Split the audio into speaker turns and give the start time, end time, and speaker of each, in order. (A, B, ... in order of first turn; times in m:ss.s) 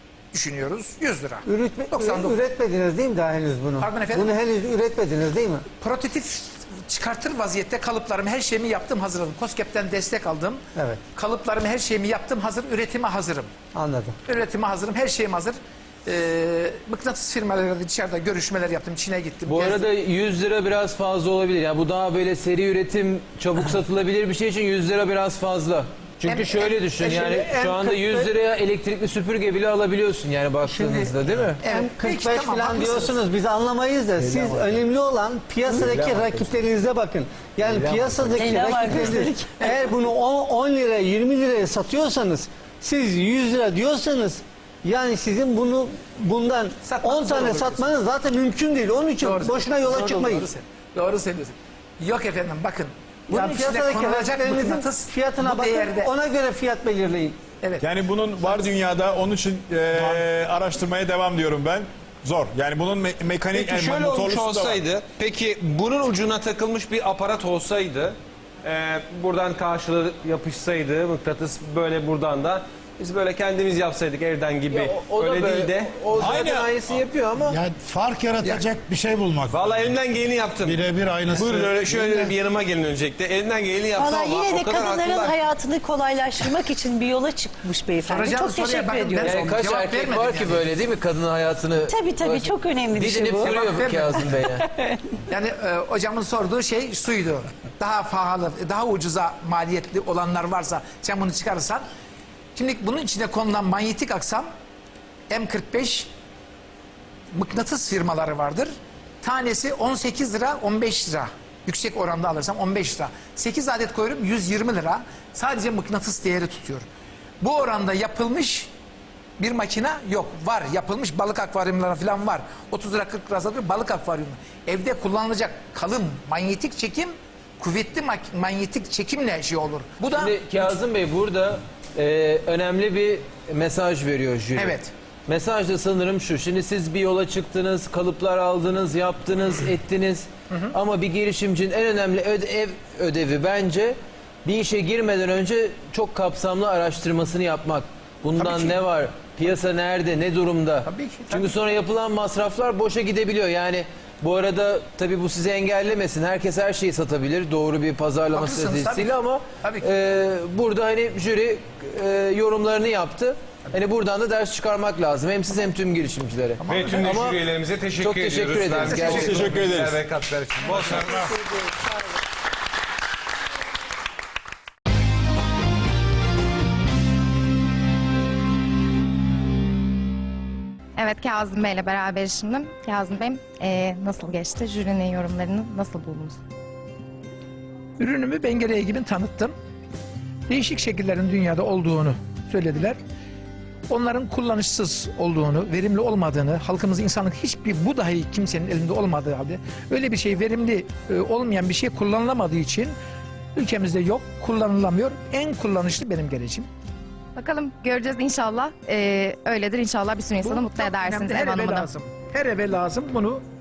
0:00.3-0:02.4 A
0:01.4-0:05.6 B
0:03.8-0:04.4 A
0:05.8-0:13.5 A
0:10.8-0:11.0 B
0:13.7-0:14.1 B
0:14.2-0:19.8 A
0:19.5-0:31.6 C
0:26.2-0:27.9 A
0:30.7-0:31.1 B
0:31.6-0:33.2 A
0:31.6-0:50.5 B
0:34.2-0:34.6 C
0:35.7-0:36.5 C
0:37.7-0:38.2 C
0:38.2-0:39.9 D
0:46.8-0:47.9 A
0:49.2-0:56.1 A
0:53.3-0:57.4 B
0:57.6-0:57.8 A
0:57.8-1:04.8 E
1:00.0-1:00.2 F
1:03.5-1:15.9 G
1:14.7-1:17.6 C
1:16.1-1:17.0 E
1:17.4-1:20.0 F
1:19.5-1:25.4 G
1:20.6-1:22.3 F
1:23.9-1:29.5 D
1:28.0-1:30.6 A
1:29.2-1:34.6 C
1:31.9-1:33.6 D
1:33.4-1:34.2 A
1:34.6-1:35.2 D
1:35.3-1:41.8 A
1:42.5-1:44.4 A
1:45.3-1:46.1 A
1:47.3-1:56.9 A
1:57.4-1:58.7 A
1:59.4-2:10.8 A
2:10.2-2:47.4 C
2:14.5-2:14.9 A
2:20.5-2:20.8 A
2:28.4-2:28.8 A
2:30.8-2:31.5 A
2:38.3-2:39.9 A
2:46.6-2:47.2 A
2:46.6-2:51.3 G
2:48.0-2:49.5 C
2:48.9-2:49.3 A
2:49.1-2:50.0 E
2:50.7-2:51.1 F
3:01.0-3:06.4 H
3:08.0-3:09.5 A
3:10.5-3:13.0 A
3:13.9-3:22.9 A
3:23.6-3:26.7 A
3:27.4-3:31.9 H
3:30.4-3:33.4 A